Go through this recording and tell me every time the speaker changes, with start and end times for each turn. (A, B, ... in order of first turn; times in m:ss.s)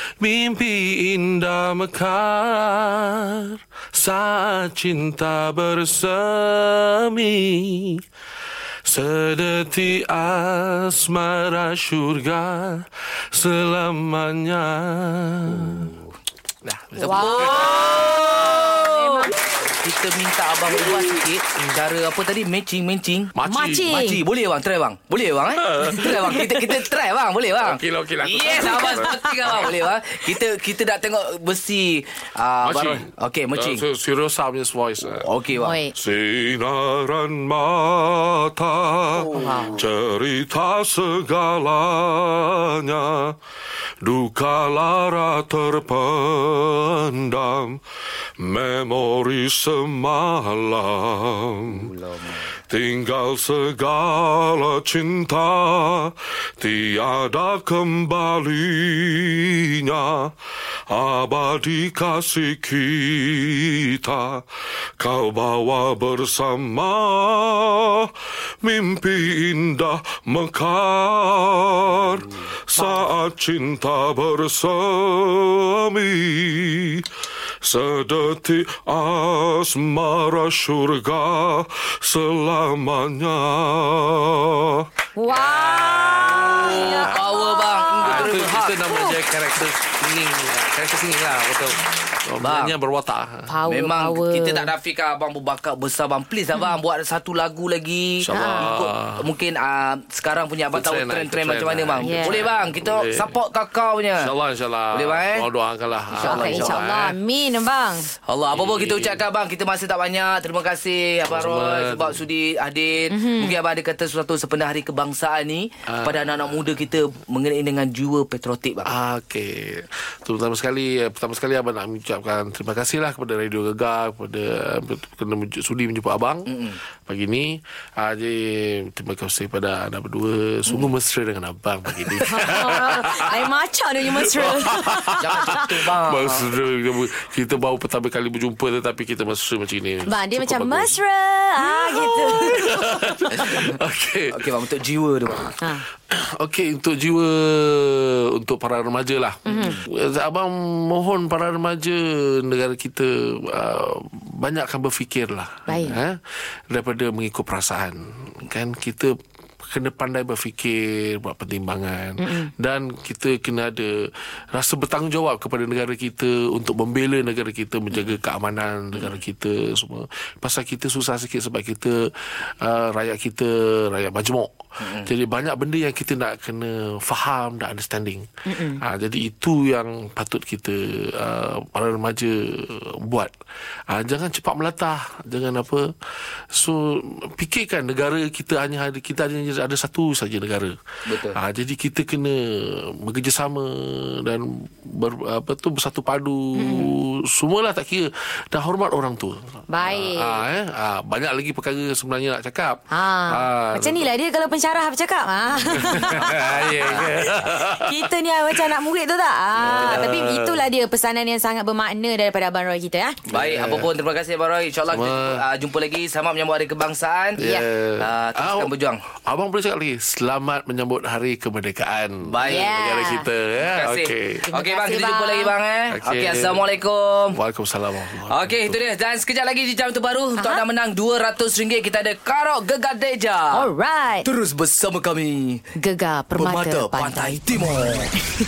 0:00.2-0:08.0 A
0:08.8-0:15.9 A
0:15.5-0:16.1 B
0:16.6-0:18.5 A
0:17.0-0:23.3 B
0:17.0-0:19.3 C
0:23.3-0:24.0 A
0:23.5-0:24.2 C
0:23.9-0:33.8 B
0:25.6-0:26.8 A
0:27.6-0:29.8 A
0:28.6-0:29.3 C
0:32.6-0:35.3 A
0:35.1-0:35.8 B
0:35.6-0:35.9 C
0:35.9-0:43.4 A
0:39.2-0:39.8 B
0:39.3-0:39.8 C
0:44.0-0:47.8 A
0:48.4-0:51.9 A
0:51.7-0:52.5 B
0:52.7-1:00.3 A
1:00.9-1:04.4 A
1:05.0-1:08.1 A
1:08.6-1:17.1 A
1:12.8-1:13.1 C
1:17.6-1:33.5 A
1:25.2-1:29.2 C
1:26.4-1:28.8 B
1:32.4-1:32.7 B
1:33.5-1:34.7 C
1:33.6-1:44.3 B
1:38.2-1:39.3 A
1:38.3-1:38.7 C
1:40.7-1:43.4 A
1:42.0-1:42.5 C
1:44.2-1:47.2 A
1:44.9-1:45.5 B
1:46.1-1:46.8 B
1:46.2-1:48.0 C
1:48.3-1:58.9 B
1:48.5-1:49.2 A
1:51.3-1:52.2 A
1:53.1-1:53.6 C
1:55.9-1:56.5 A
1:58.8-2:06.5 A
2:06.5-2:06.8 B
2:07.0-2:13.5 A
2:12.2-2:15.6 C
2:14.1-2:21.0 A
2:15.2-2:16.5 B
2:20.0-2:23.2 C
2:21.6-2:24.5 A
2:23.4-2:23.7 B
2:24.3-2:25.5 B
2:26.1-2:36.2 A
2:29.4-2:29.8 C
2:29.5-2:29.8 B
2:35.7-2:36.0 C
2:36.7-2:39.1 A
2:39.7-2:52.0 A
2:42.2-2:42.5 C
2:52.6-2:58.2 A
2:54.8-2:55.1 B
2:58.5-2:58.8 C
2:58.8-3:03.3 A
3:03.9-3:05.9 A
3:06.5-3:10.7 A
3:11.1-3:11.4 B
3:11.3-3:24.1 A
3:16.5-3:16.9 C
3:19.7-3:20.4 C
3:22.9-3:27.0 C
3:25.6-3:28.7 A
3:25.9-3:27.4 B
3:27.5-3:33.2 C
3:29.6-3:30.6 A
3:29.7-3:30.1 B
3:33.3-3:33.9 A
3:33.3-3:37.4 B
3:34.9-3:35.4 A
3:37.4-3:38.7 A
3:37.4-3:37.6 C
3:38.0-3:39.0 B
3:39.3-3:44.5 A
3:42.3-3:42.7 B
3:42.4-3:43.3 C
3:43.6-3:47.4 B
3:44.5-3:45.5 C
3:45.9-3:46.7 A
3:47.3-3:48.8 A
3:48.3-3:53.6 B
3:50.4-3:50.6 C
3:53.5-3:54.3 C
3:54.2-3:55.6 B
3:55.7-3:57.4 C
3:56.4-3:58.1 B